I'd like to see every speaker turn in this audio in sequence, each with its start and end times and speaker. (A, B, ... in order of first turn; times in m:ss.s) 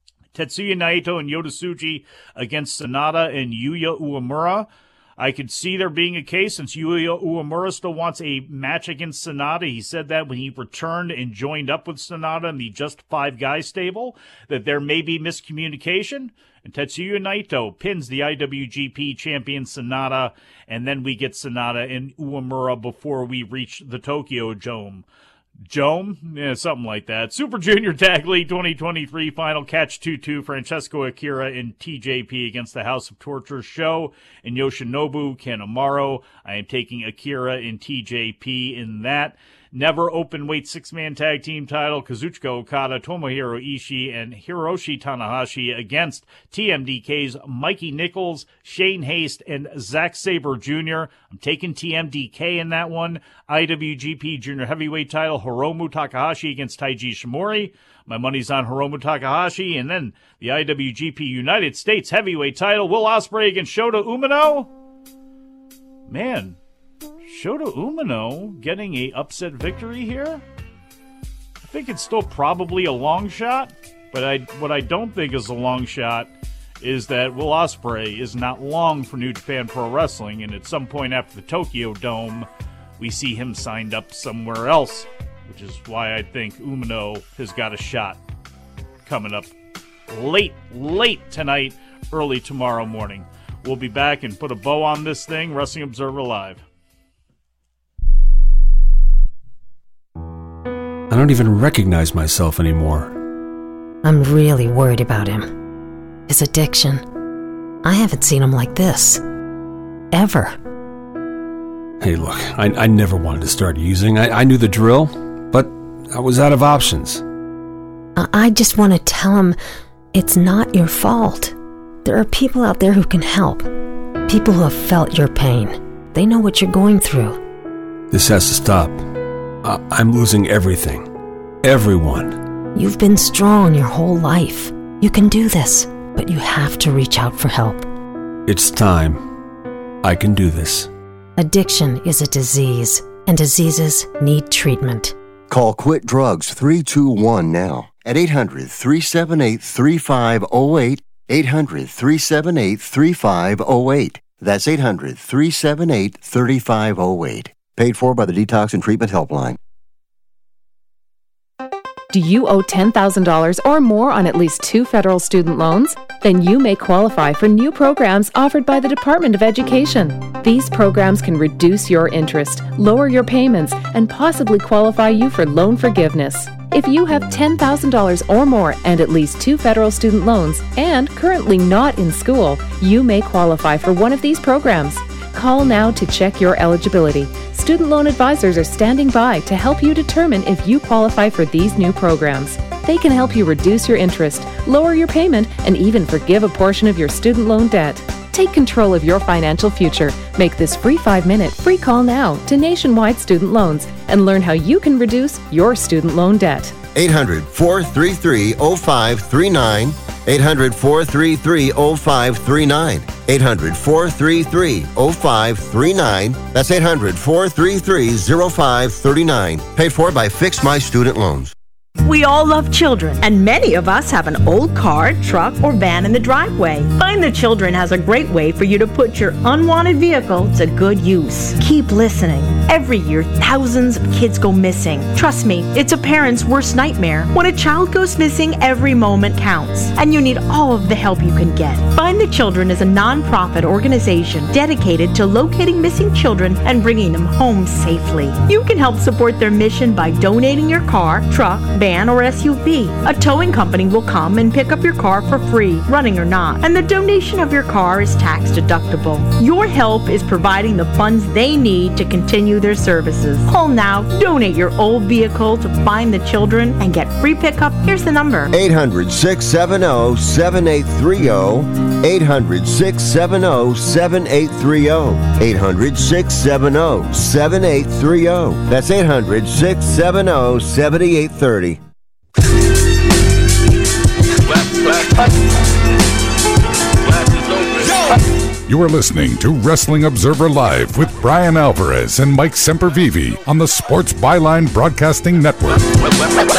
0:00.3-0:25.0 A
0:25.6-1:04.7 A
1:06.1-1:06.6 A
1:07.2-1:10.4 A
1:11.6-1:28.2 A
1:29.0-1:29.5 A
1:30.1-1:36.6 A
1:41.1-1:43.2 B
1:44.0-1:45.5 C
1:46.3-1:47.0 C
1:47.8-1:49.2 C
1:50.1-1:50.6 C
1:52.0-1:57.2 B
1:58.2-1:59.6 C
2:00.1-2:03.7 C
2:04.3-2:07.4 C
2:08.1-2:11.1 B
2:11.6-2:12.4 B
2:12.7-2:17.9 C
2:18.4-2:19.3 B
2:20.0-2:20.9 B
2:21.4-2:25.2 C
2:25.5-2:39.6 D
2:42.1-3:26.7 E
3:26.9-3:41.5 D
3:42.0-4:28.5 F
4:28.5-4:41.8 D
4:48.7-4:56.0 G